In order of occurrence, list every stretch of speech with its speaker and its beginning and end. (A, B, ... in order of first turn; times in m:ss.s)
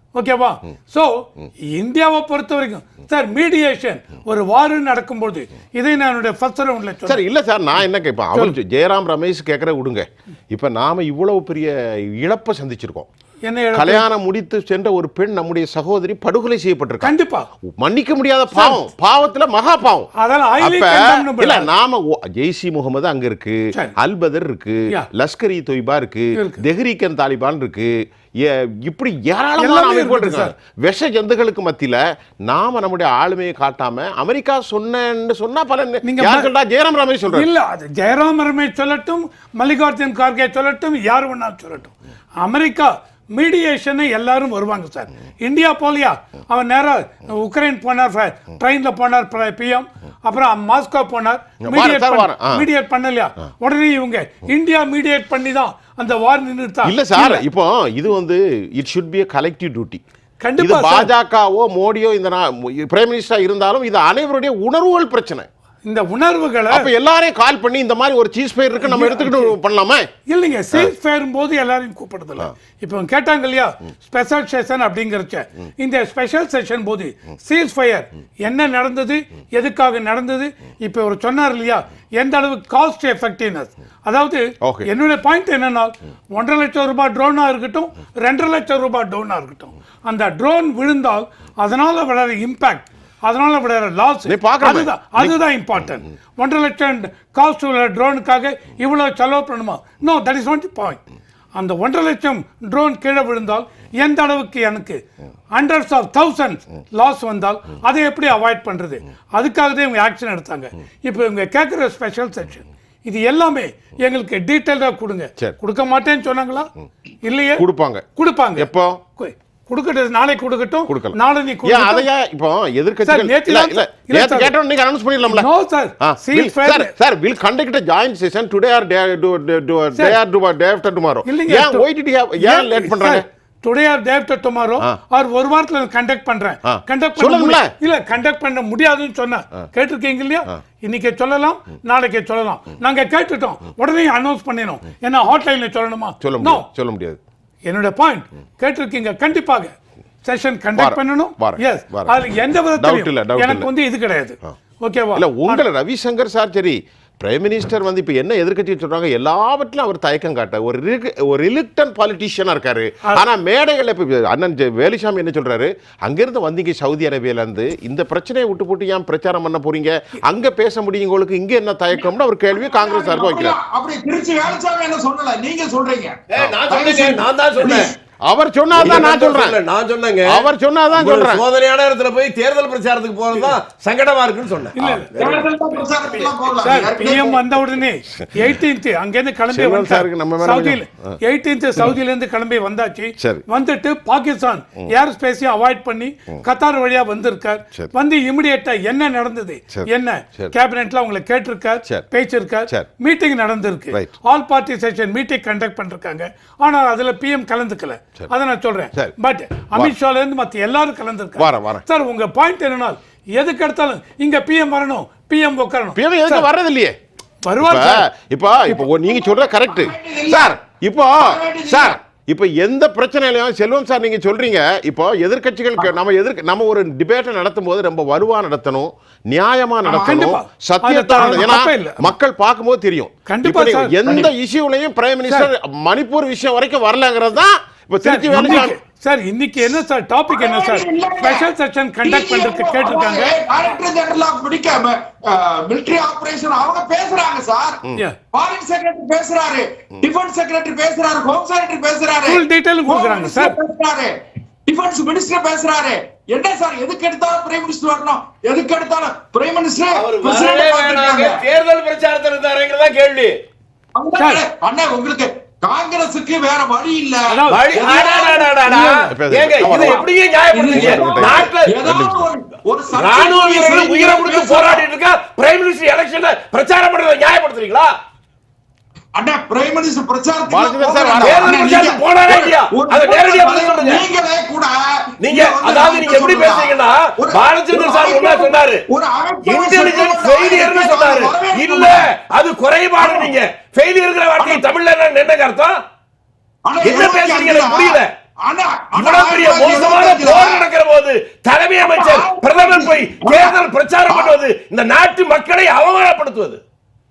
0:00.2-0:07.2 A
0:07.1-0:13.1 B
0:13.4-0:14.1 A
0:13.7-0:17.1 B
0:17.0-0:17.5 A
0:17.7-0:20.1 B
0:18.5-0:18.9 A
0:20.1-0:21.7 A
0:20.6-0:37.5 B
0:26.4-0:26.6 A
0:29.6-0:30.5 A
0:36.0-0:36.5 A
0:37.3-0:57.4 A
0:51.7-0:52.7 B
0:56.8-1:00.0 B
1:00.4-1:01.1 A
1:00.6-1:05.5 B
1:05.8-1:06.9 A
1:06.7-1:10.1 B
1:08.8-1:09.6 A
1:10.3-1:41.0 A
1:24.6-1:24.9 B
1:34.3-1:35.4 B
1:41.6-1:45.0 A
1:45.5-1:56.7 A
1:57.2-1:57.6 A
1:57.6-1:59.0 B
1:58.2-2:02.1 A
2:00.9-2:05.5 B
2:03.0-2:04.6 A
2:05.3-2:06.9 A
2:06.0-2:13.3 B
2:11.2-2:11.9 A
2:12.4-2:26.7 A
2:16.7-2:17.7 B
2:26.2-2:27.2 B
2:27.7-2:35.6 A
2:30.8-2:32.2 B
2:32.8-2:33.7 B
2:35.2-2:53.6 B
2:52.5-2:58.0 C
2:56.3-2:57.9 D
2:58.2-2:59.6 B
2:58.8-3:06.4 D
3:00.2-3:01.5 B
3:04.8-3:05.1 A
3:05.2-3:07.4 C
3:06.6-3:36.5 A
3:09.5-3:11.2 B
3:19.7-3:20.5 B
3:31.4-3:31.8 B
3:36.0-3:37.0 B
3:37.4-3:38.1 A
3:37.6-3:58.8 B
3:38.9-3:40.6 C
3:41.2-3:42.0 C
3:49.8-3:50.3 C
3:50.0-3:52.1 A
3:53.3-3:54.0 A
3:54.0-3:54.3 C
3:58.0-4:03.4 A
3:58.3-3:58.6 C
4:00.3-4:01.5 C
4:02.0-4:14.2 C
4:12.3-4:13.6 A
4:14.7-4:21.4 C
4:19.9-4:23.4 D
4:24.0-4:28.8 C
4:27.3-4:27.6 A
4:27.5-4:31.8 D
4:29.0-4:30.0 B
4:29.6-4:34.9 C
4:30.7-4:32.3 B
4:32.9-4:37.9 D
4:39.2-4:52.1 C
4:40.5-4:41.6 B
4:41.2-4:44.0 D
4:45.2-4:48.8 D
4:49.4-4:55.8 D
4:53.0-4:53.3 C
4:54.4-4:54.6 C
4:56.6-5:00.7 C
4:56.8-4:58.1 D
4:59.0-5:06.6 D
5:01.8-5:04.4 C